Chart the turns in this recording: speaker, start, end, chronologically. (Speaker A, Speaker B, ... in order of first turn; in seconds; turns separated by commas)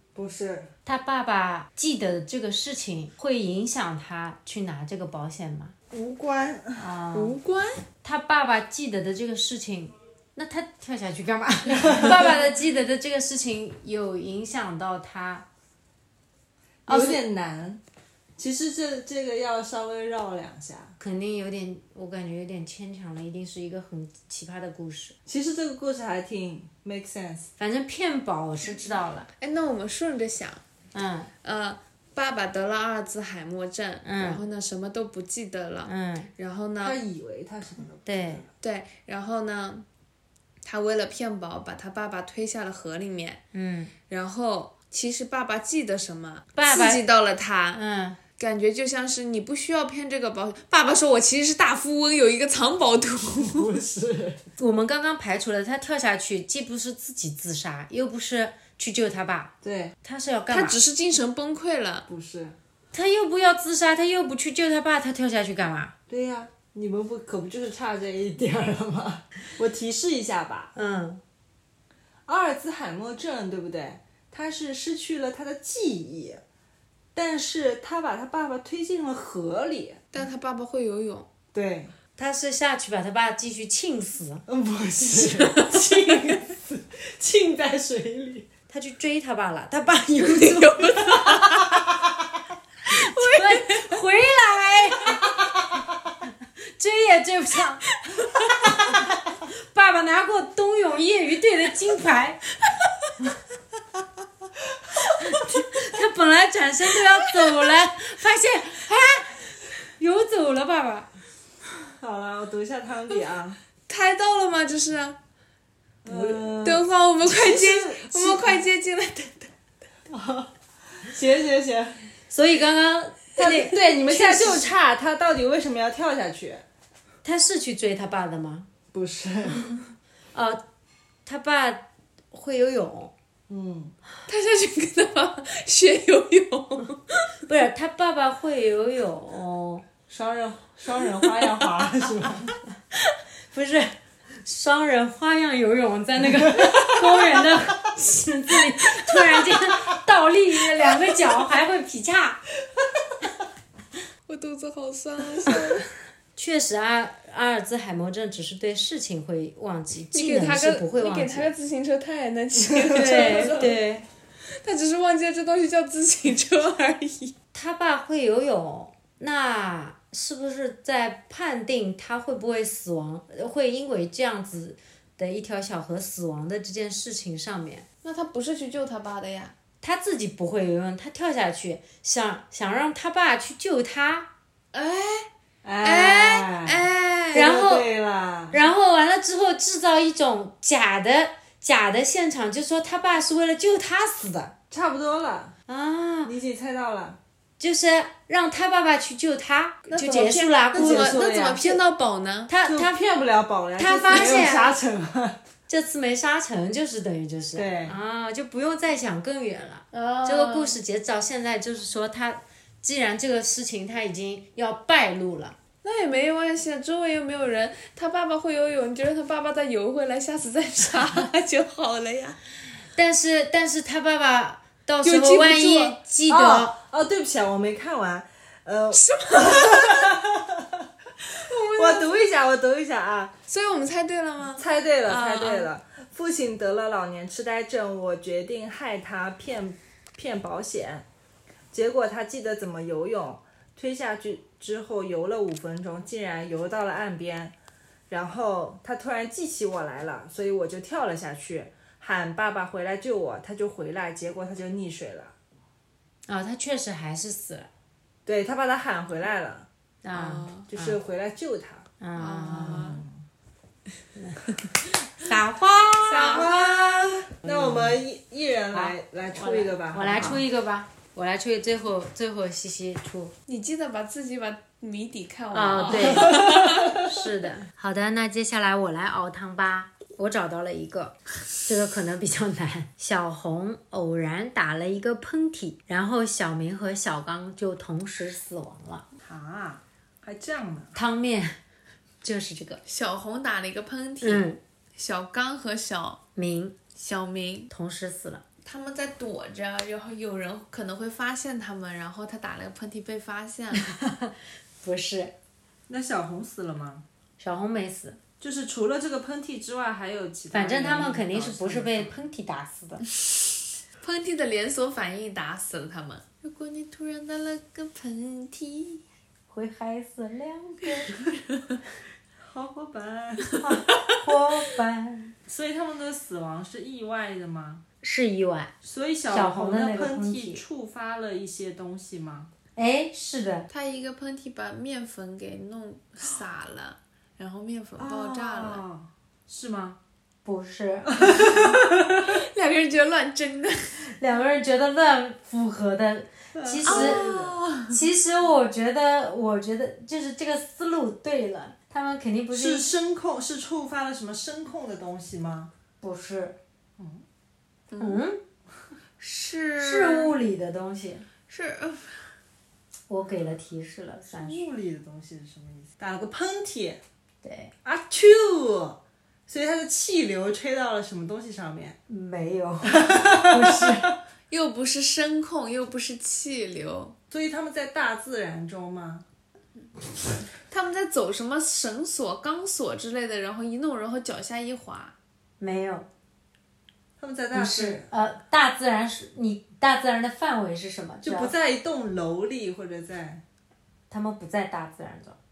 Speaker A: 0.1-0.7, Speaker B: 0.9-5.7, Speaker A: 5.9-6.9, Speaker B: 6.8-7.4, Speaker C: 7.1-7.8, Speaker B: 8.0-15.5, Speaker A: 11.7-12.4, Speaker B: 16.9-17.2, Speaker A: 16.9-17.8, Speaker A: 18.4-21.0, Speaker B: 21.0-25.2, Speaker A: 25.3-27.5, Speaker B: 27.6-29.3, Speaker C: 29.4-30.6, Speaker B: 30.9-31.3, Speaker C: 31.4-37.0, Speaker B: 34.0-34.4, Speaker B: 35.8-36.3, Speaker A: 36.8-38.5, Speaker B: 38.1-38.4, Speaker C: 38.6-39.9, Speaker C: 40.6-43.4, Speaker B: 43.5-43.9, Speaker C: 44.1-47.8, Speaker B: 46.5-47.0, Speaker B: 47.7-48.2, Speaker C: 48.4-53.8, Speaker A: 53.4-54.4, Speaker B: 54.6-60.8, Speaker A: 59.6-59.9, Speaker C: 60.5-62.1, Speaker A: 62.1-62.6, Speaker B: 62.9-66.0, Speaker A: 66.1-70.7, Speaker B: 70.8-71.2, Speaker A: 72.3-76.4, Speaker A: 77.2-80.1, Speaker C: 80.1-81.3, Speaker A: 81.5-82.0, Speaker B: 82.2-84.5, Speaker A: 84.5-88.5, Speaker B: 88.7-91.5, Speaker C: 90.2-91.8, Speaker C: 92.9-93.8, Speaker B: 93.0-95.4, Speaker B: 96.8-97.9, Speaker B: 98.4-102.4, Speaker B: 105.2-111.1, Speaker A: 111.9-113.6, Speaker C: 113.9-115.2, Speaker A: 116.0-118.3, Speaker B: 116.1-116.5, Speaker C: 116.6-119.5, Speaker A: 120.1-122.0, Speaker B: 122.3-124.7, Speaker A: 123.4-126.6, Speaker B: 127.2-128.7, Speaker A: 128.9-129.8, Speaker B: 130.3-130.6, Speaker B: 131.3-133.1, Speaker A: 133.5-133.9, Speaker C: 134.3-137.3, Speaker B: 137.5-139.9, Speaker A: 140.1-142.6, Speaker B: 143.5-152.4, Speaker A: 146.6-147.4, Speaker A: 149.1-149.6, Speaker C: 154.3-155.9, Speaker B: 156.4-161.5, Speaker C: 160.1-163.8, Speaker A: 162.8-163.7, Speaker B: 162.9-164.1, Speaker C: 164.5-167.3, Speaker B: 167.5-177.9, Speaker C: 178.0-179.5, Speaker B: 179.8-184.3, Speaker C: 184.7-185.3, Speaker A: 185.6-188.6, Speaker C: 185.8-187.5, Speaker B: 187.3-187.9, Speaker B: 188.5-194.6, Speaker A: 194.7-195.5, Speaker B: 195.7-196.3, Speaker A: 196.2-197.2, Speaker B: 197.6-201.8, Speaker C: 199.9-202.5, Speaker A: 200.7-201.6, Speaker B: 202.5-203.0, Speaker A: 202.6-205.4, Speaker B: 203.8-204.8, Speaker B: 205.7-215.6, Speaker A: 207.6-208.0, Speaker C: 209.9-210.8, Speaker C: 215.8-222.4, Speaker B: 222.9-226.8, Speaker C: 225.1-225.9, Speaker A: 225.2-225.7, Speaker A: 226.3-230.9, Speaker C: 228.9-230.2, Speaker C: 231.4-232.2, Speaker A: 231.8-233.3, Speaker C: 233.5-235.7, Speaker A: 234.6-241.1, Speaker A: 241.7-247.5, Speaker A: 248.1-255.3, Speaker B: 256.3-257.7, Speaker A: 258.3-259.7, Speaker B: 260.0-261.0, Speaker C: 260.1-260.7, Speaker A: 260.7-261.9, Speaker B: 262.0-263.0, Speaker C: 262.1-263.0, Speaker A: 262.5-263.1, Speaker B: 264.1-264.5, Speaker B: 265.2-266.6, Speaker C: 266.1-266.9, Speaker A: 266.1-270.4, Speaker B: 267.4-268.1, Speaker B: 268.7-273.3, Speaker C: 273.5-276.9, Speaker B: 275.5-289.1, Speaker A: 289.2-291.0, Speaker B: 290.9-291.6, Speaker B: 292.2-292.8, Speaker C: 292.9-296.2, Speaker B: 294.2-294.6, Speaker B: 296.4-296.8, Speaker C: 297.0-297.7, Speaker B: 297.7-298.4, Speaker C: 298.6-303.9, Speaker B: 303.7-305.3, Speaker A: 305.9-307.1, Speaker B: 307.4-308.2, Speaker A: 308.4-312.1, Speaker B: 310.5-313.0, Speaker C: 314.0-319.0, Speaker B: 319.5-321.2, Speaker A: 322.4-323.7, Speaker B: 323.6-325.4, Speaker A: 325.5-327.8, Speaker B: 328.0-328.7, Speaker A: 328.8-332.5, Speaker B: 329.3-330.6, Speaker B: 332.8-333.7, Speaker C: 333.7-338.8, Speaker A: 338.0-340.0, Speaker B: 340.4-341.5, Speaker A: 341.1-342.2, Speaker C: 341.4-341.7, Speaker C: 342.2-344.0, Speaker B: 344.1-347.2, Speaker A: 346.6-347.6, Speaker C: 346.9-347.9, Speaker B: 347.9-352.9, Speaker A: 352.5-355.7, Speaker B: 356.0-356.6, Speaker A: 357.0-357.2, Speaker C: 357.9-358.2, Speaker B: 358.0-358.4, Speaker C: 359.2-360.4, Speaker B: 359.8-361.3, Speaker C: 361.5-362.2, Speaker B: 363.1-364.6, Speaker A: 364.3-367.0, Speaker B: 367.4-367.7, Speaker A: 367.8-372.0, Speaker B: 372.1-374.1, Speaker A: 372.9-374.1, Speaker C: 374.5-377.2, Speaker A: 377.3-379.2, Speaker C: 380.7-385.1, Speaker B: 385.6-386.1, Speaker A: 387.2-388.1, Speaker B: 387.5-391.5, Speaker A: 391.2-393.4, Speaker B: 394.1-395.4